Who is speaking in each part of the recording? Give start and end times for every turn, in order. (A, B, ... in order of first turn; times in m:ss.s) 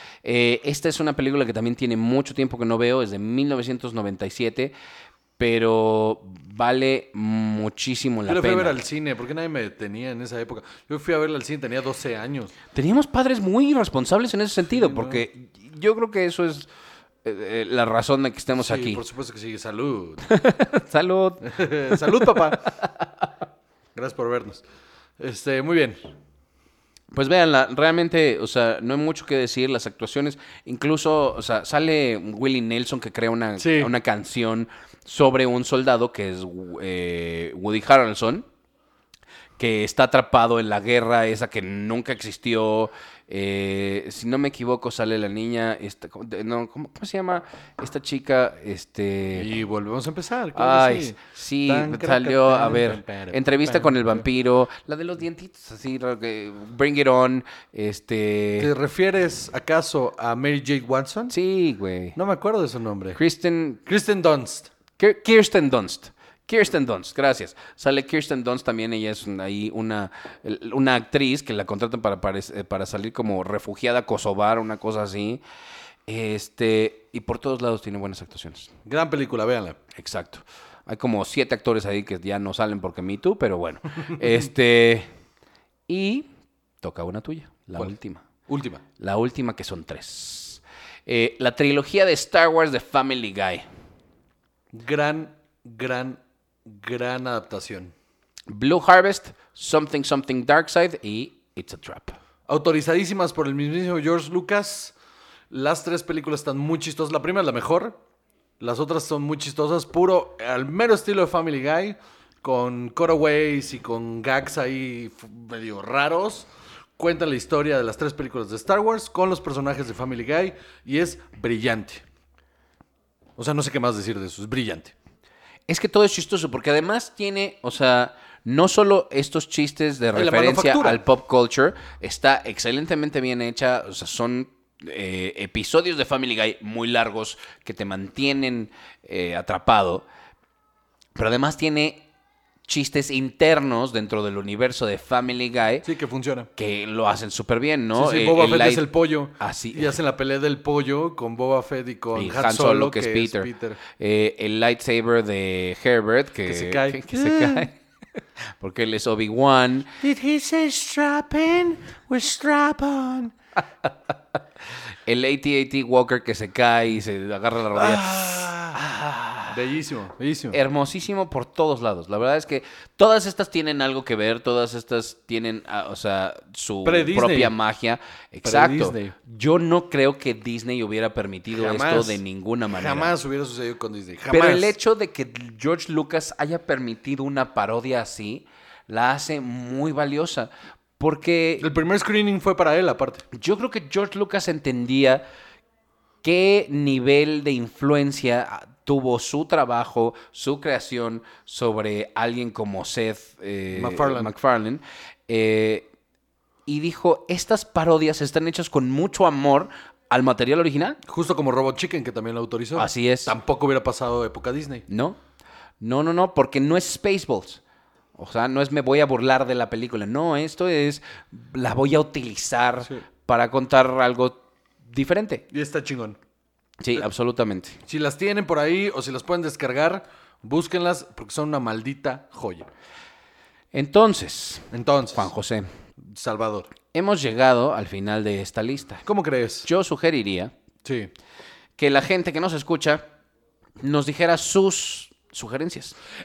0:00.2-0:04.7 A
0:05.4-0:08.8 A
0:08.3-0:12.5 B
0:12.7-0:16.7 A
0:14.7-0:15.2 B
0:17.2-0:19.0 A
0:18.6-0:20.2 B
0:20.3-0:23.3 A
0:21.4-0:22.8 B
0:24.0-0:24.6 B
0:25.2-0:26.0 B
0:27.1-0:38.5 A
0:33.6-0:33.9 B
0:39.6-0:49.5 A
0:49.3-0:54.2 B
0:50.6-0:58.7 A
0:58.6-1:01.3 B
1:01.3-1:02.2 A
1:02.2-1:03.2 B
1:03.2-1:03.8 A
1:03.9-1:04.7 B
1:05.0-1:15.4 A
1:16.1-1:18.7 A
1:18.9-1:19.8 B
1:20.0-1:25.1 A
1:25.9-1:26.3 A
1:26.8-1:28.2 A
1:28.5-1:28.8 B
1:29.0-1:33.7 A
1:34.7-1:37.9 B
1:38.5-1:42.2 A
1:42.5-1:45.0 B
1:45.5-1:48.0 B
1:48.6-2:02.0 B
2:03.4-2:05.0 B
2:05.7-2:20.1 A
2:10.1-2:11.0 B
2:21.2-2:22.0 A
2:22.7-2:25.9 A
2:25.8-2:26.5 B
2:26.6-2:28.8 A
2:27.9-2:33.8 B
2:29.4-2:29.9 A
2:32.2-2:37.8 A
2:36.5-2:37.7 B
2:38.6-2:39.9 A
2:40.0-2:43.4 B
2:45.1-2:49.6 A
2:47.7-2:48.8 B
2:49.5-2:50.6 B
2:50.5-3:03.1 A
2:56.8-2:57.6 B
2:58.4-2:59.1 B
3:01.5-3:04.7 B
3:04.3-3:11.7 A
3:11.6-3:13.2 B
3:13.3-3:15.2 A
3:16.2-3:25.9 A
3:23.7-3:24.3 B
3:26.7-3:31.0 A
3:31.1-3:34.8 B
3:32.8-3:33.3 A
3:34.9-3:35.2 A
3:35.8-3:37.6 A
3:38.2-3:44.4 A
3:44.9-3:45.4 A
3:45.5-3:46.2 B
3:46.8-3:47.8 A
3:47.9-3:52.7 B
3:53.7-3:55.7 A
3:54.7-3:55.3 B
3:56.0-3:56.7 B
3:56.9-3:59.0 A
3:59.1-3:59.7 B
3:59.6-4:00.5 A
4:00.8-4:01.1 B
4:01.8-4:03.0 A
4:03.8-4:06.0 A